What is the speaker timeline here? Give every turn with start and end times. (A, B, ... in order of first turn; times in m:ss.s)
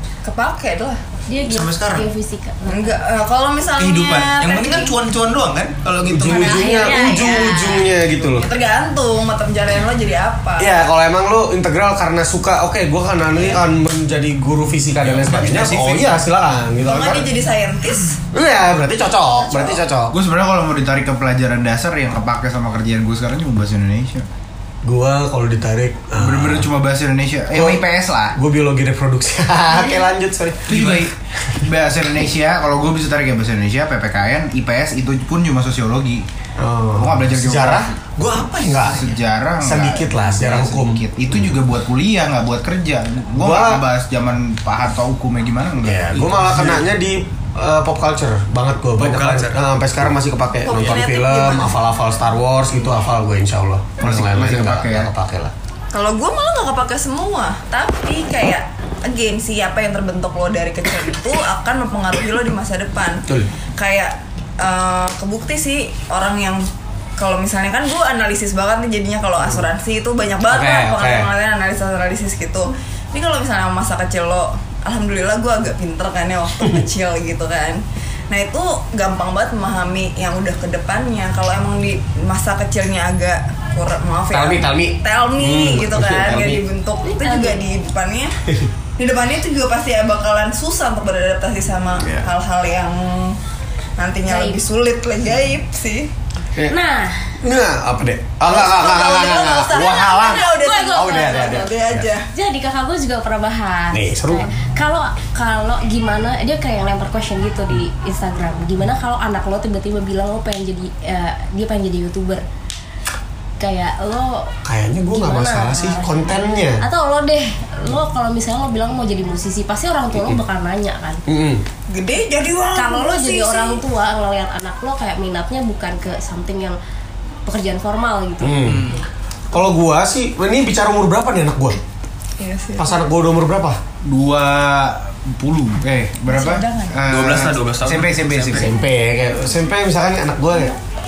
0:00.2-0:01.0 A
0:01.3-0:03.0 B
0:01.4-0:02.1 C
0:02.7-0:05.0 A
0:03.8-0:06.9 C
0:06.0-0:08.4 D
0:06.3-0:10.7 A
0:06.3-0:07.6 B
0:10.6-0:17.3 D
0:15.0-0:16.2 C
0:16.8-0:18.2 A
0:18.3-0:20.1 D
0:20.1-0:24.3 E
0:24.8-0:26.7 D
0:26.2-0:28.4 E
0:27.5-0:27.8 D
0:28.4-0:30.8 D
0:30.7-0:36.3 E
0:30.7-0:31.1 C
0:36.6-0:41.6 D
0:36.9-0:37.9 E
0:38.7-0:46.5 E
0:43.4-0:43.8 D
0:45.8-0:55.5 D
0:46.2-0:46.8 C
0:49.0-0:49.6 C
0:50.6-0:51.7 A
0:54.0-0:55.1 E
0:55.9-1:03.2 A
1:03.8-1:06.6 A
1:07.2-1:28.3 A
1:10.5-1:11.3 D
1:24.3-1:26.6 D
1:27.0-1:27.6 B
1:29.0-1:33.4 A
1:32.0-1:32.3 D
1:34.0-1:36.1 A
1:34.3-1:34.6 B
1:36.7-1:37.3 B
1:37.4-1:42.1 D
1:38.4-1:42.3 A
1:40.2-1:41.7 B
1:42.3-1:52.4 B
1:43.9-1:44.5 D
1:53.6-1:54.5 B
1:54.6-1:56.8 D
1:55.1-2:01.2 B
2:00.1-2:00.4 D
2:01.3-2:01.6 D
2:01.9-2:03.8 A
2:02.8-2:06.8 B
2:07.4-2:08.9 B
2:08.4-2:08.9 D
2:08.7-2:09.0 C
2:09.5-2:11.8 D
2:12.4-2:13.0 A
2:12.8-2:13.8 D
2:14.0-2:18.7 E
2:16.3-2:17.0 A
2:17.1-2:18.7 C
2:18.5-2:20.8 D